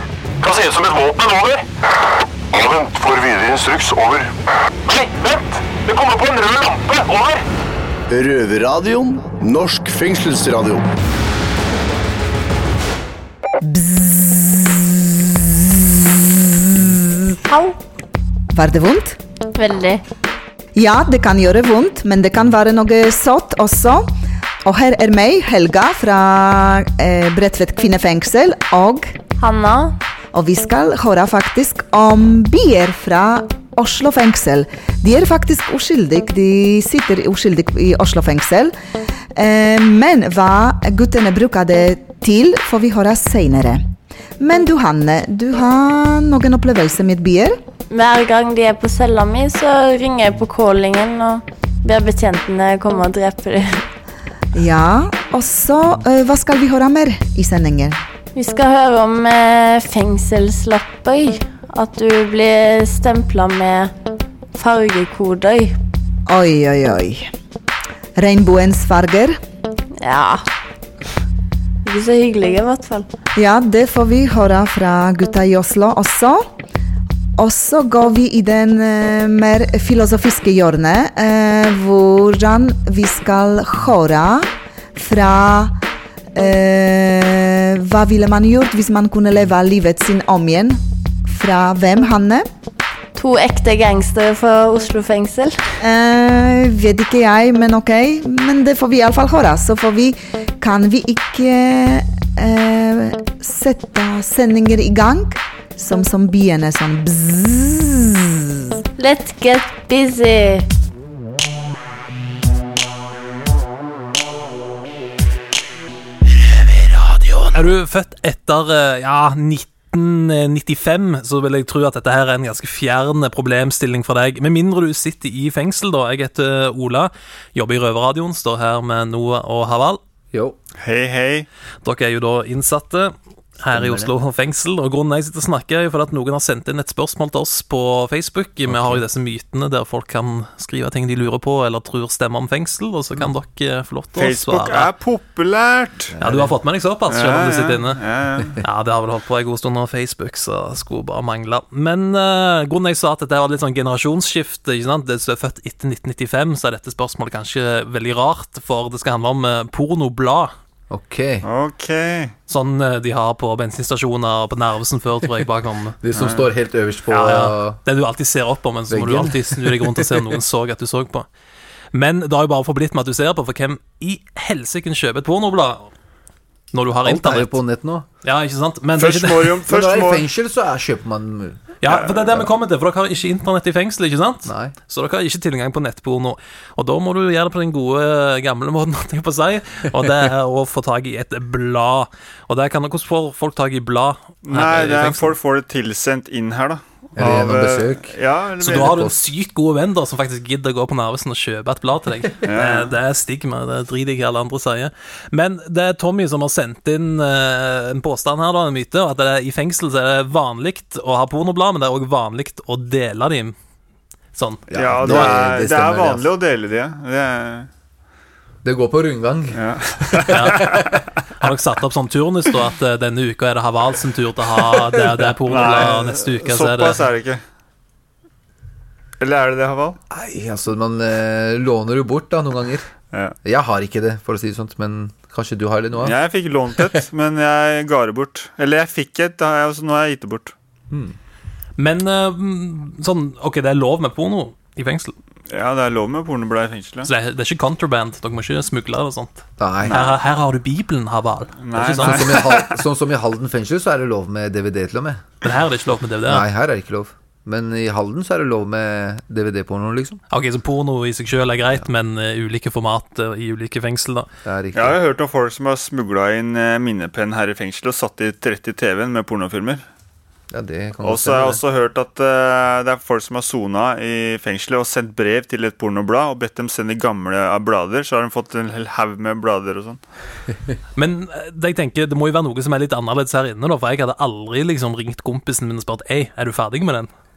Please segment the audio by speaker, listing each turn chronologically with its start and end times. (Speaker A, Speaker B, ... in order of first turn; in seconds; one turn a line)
Speaker A: 0.4-1.6
Speaker A: 2.5-4.2
Speaker B: 2.8-4.2
Speaker A: 4.9-7.5
Speaker B: 8.1-10.9
Speaker C: 13.6-16.2
Speaker C: 16.7-17.2
Speaker D: 17.5-17.8
Speaker C: 18.5-19.2
Speaker D: 19.6-20.0
Speaker C: 20.8-24.1
Speaker C: 24.6-29.1
Speaker D: 29.4-30.0
Speaker C: 30.3-38.7
Speaker C: 39.4-43.8
Speaker C: 44.4-47.6
Speaker D: 47.9-53.9
Speaker C: 54.5-58.0
Speaker D: 58.4-63.9
Speaker D: 64.5-65.8
Speaker C: 66.3-67.3
Speaker C: 68.2-69.4
Speaker D: 70.0-70.5
Speaker D: 71.8-73.1
Speaker C: 73.4-76.4
Speaker C: 77.4-85.8
Speaker C: 86.3-92.5
Speaker D: 93.2-95.6
Speaker C: 95.8-108.4
Speaker D: 109.0-110.7
Speaker E: 117.5-130.0
Speaker F: 130.8-131.5
Speaker E: 131.8-144.9
Speaker G: 133.7-134.1
Speaker G: 138.7-139.0
Speaker F: 144.2-146.1
Speaker G: 146.2-146.5
Speaker E: 146.2-148.0
Speaker F: 147.1-148.6
Speaker E: 148.6-160.5
Speaker G: 160.9-161.4
Speaker F: 161.4-162.3
Speaker E: 162.5-166.0
Speaker G: 166.0-167.8
Speaker F: 166.1-166.5
Speaker E: 167.1-171.3
Speaker G: 168.9-170.3
Speaker E: 171.9-175.9
Speaker E: 176.7-177.6
Speaker G: 177.0-178.1
Speaker E: 178.2-179.6
Speaker F: 179.0-180.3
Speaker G: 179.7-181.6
Speaker E: 181.8-195.3
Speaker G: 184.5-184.8
Speaker F: 194.4-199.1
Speaker G: 197.2-199.2
Speaker E: 198.6-213.6
Speaker F: 202.4-202.9
Speaker E: 214.3-215.3
Speaker G: 214.7-216.3
Speaker F: 214.8-217.7
Speaker G: 218.6-221.0
Speaker F: 219.6-220.8
Speaker E: 220.3-220.7
Speaker E: 221.4-227.0
Speaker F: 225.5-227.4
Speaker F: 229.2-230.0
Speaker G: 230.1-232.9
Speaker G: 233.4-236.2
Speaker F: 236.0-240.5
Speaker E: 241.8-245.2
Speaker F: 245.5-247.1
Speaker E: 247.0-252.4
Speaker G: 249.6-249.9
Speaker F: 249.9-250.2
Speaker F: 251.6-252.8
Speaker G: 251.9-255.2
Speaker E: 255.4-256.5
Speaker G: 256.3-260.2
Speaker E: 260.3-264.3
Speaker G: 264.4-265.0
Speaker F: 264.7-269.8
Speaker G: 270.5-271.6
Speaker F: 271.0-280.0
Speaker E: 281.0-287.1